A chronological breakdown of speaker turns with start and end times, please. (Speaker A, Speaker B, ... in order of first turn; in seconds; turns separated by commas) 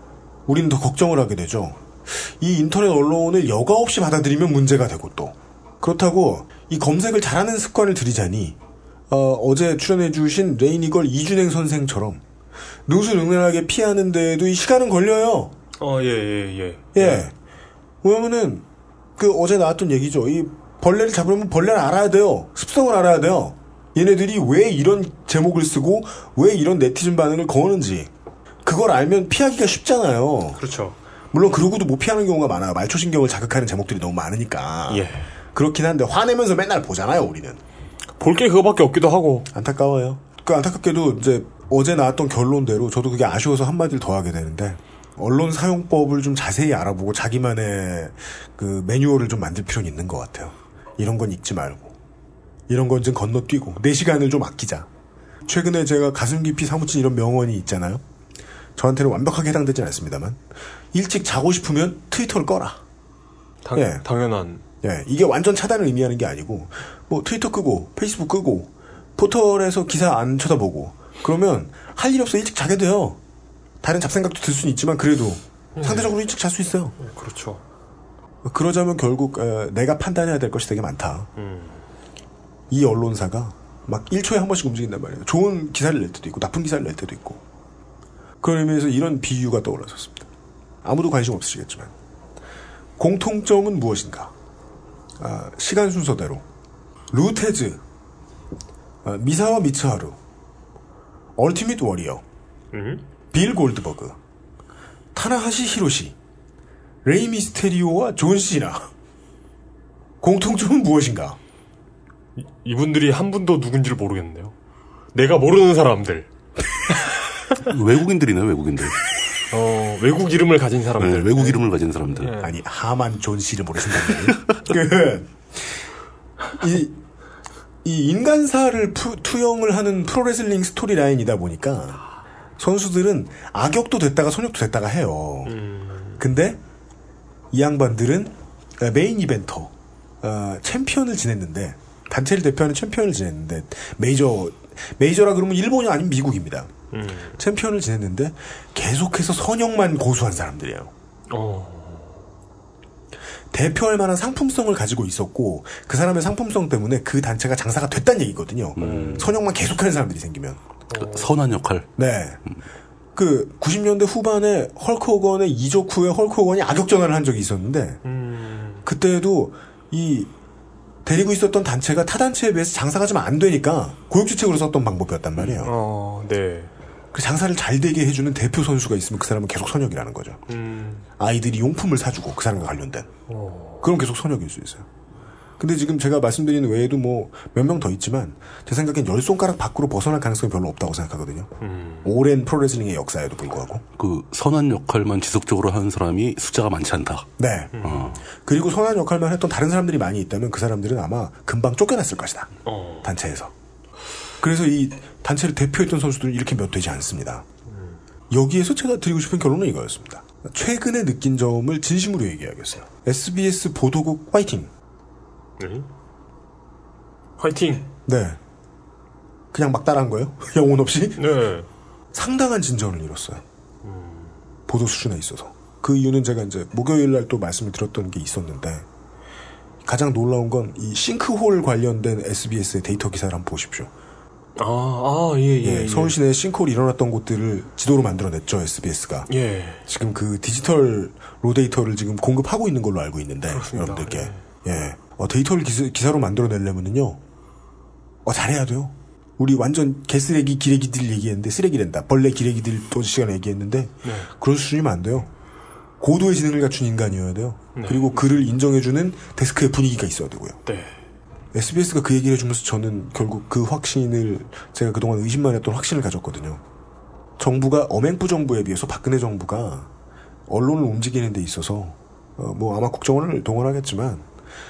Speaker A: 0.5-8.6, Speaker A: 9.1-12.2, Speaker A: 12.8-15.5, Speaker B: 15.8-17.2, Speaker A: 16.9-17.3, Speaker A: 18.0-18.6, Speaker A: 19.2-28.1, Speaker A: 28.6-30.6, Speaker B: 30.6-31.0, Speaker A: 31.3-37.6, Speaker B: 34.9-35.3, Speaker B: 38.2-39.5, Speaker A: 39.5-51.9, Speaker A: 52.7-54.9, Speaker A: 55.5-58.0, Speaker A: 58.8-60.4, Speaker A: 60.9-62.8, Speaker B: 63.6-64.6, Speaker A: 63.7-64.0, Speaker A: 64.8-73.2, Speaker A: 73.8-77.0, Speaker B: 75.8-76.2, Speaker B: 77.0-77.6, Speaker A: 78.4-81.3, Speaker B: 81.4-81.8, Speaker A: 82.7-87.4, Speaker A: 88.4-90.3, Speaker A: 90.8-91.9, Speaker A: 93.0-94.3, Speaker A: 95.2-96.4, Speaker A: 97.1-97.8, Speaker A: 99.0-100.2, Speaker A: 101.3-102.2, Speaker B: 102.7-103.0, Speaker A: 103.3-104.2, Speaker A: 105.1-106.2, Speaker A: 107.0-108.9, Speaker A: 110.2-111.4, Speaker B: 112.4-114.5, Speaker B: 115.1-116.3, Speaker C: 117.6-119.1, Speaker B: 119.5-121.6, Speaker C: 121.0-122.4, Speaker B: 122.2-122.5, Speaker A: 122.4-125.4, Speaker A: 126.6-127.0, Speaker A: 127.8-132.0, Speaker A: 132.6-135.6, Speaker B: 135.4-136.2, Speaker A: 136.2-136.6, Speaker A: 137.5-146.7, Speaker B: 146.9-147.4, Speaker A: 147.4-150.9, Speaker B: 151.3-152.2, Speaker A: 153.5-160.6, Speaker C: 158.8-159.3, Speaker B: 158.8-159.3, Speaker B: 160.9-161.3, Speaker C: 161.0-161.9, Speaker A: 162.0-162.4, Speaker A: 163.1-168.0, Speaker B: 168.0-168.8, Speaker A: 168.8-170.3, Speaker A: 171.0-175.7, Speaker B: 175.4-176.7, Speaker A: 177.1-180.4, Speaker B: 180.5-181.0, Speaker A: 181.2-183.1, Speaker B: 183.3-183.9, Speaker A: 183.8-184.8, Speaker A: 185.6-191.5, Speaker B: 191.6-192.1, Speaker A: 192.0-193.8, Speaker C: 194.0-197.3, Speaker A: 197.4-203.5, Speaker B: 197.7-198.2, Speaker C: 197.8-198.1, Speaker B: 202.7-203.1, Speaker A: 204.4-207.4, Speaker B: 207.7-208.0, Speaker A: 208.3-214.7, Speaker B: 215.6-215.9, Speaker B: 217.4-217.9, Speaker A: 218.1-218.4, Speaker A: 219.5-221.3, Speaker B: 221.2-221.7, Speaker A: 222.1-223.4, Speaker B: 223.8-224.3, Speaker A: 224.7-228.8, Speaker A: 229.8-233.9, Speaker B: 234.6-236.2, Speaker A: 235.6-239.3, Speaker B: 239.3-239.8, Speaker A: 239.8-247.2, Speaker B: 243.5-244.4, Speaker A: 248.2-255.3, Speaker B: 254.0-254.3, Speaker A: 256.0-260.6, Speaker B: 257.8-258.3, Speaker B: 260.6-260.9, Speaker A: 261.5-266.6, Speaker A: 267.4-269.9, Speaker A: 270.5-274.3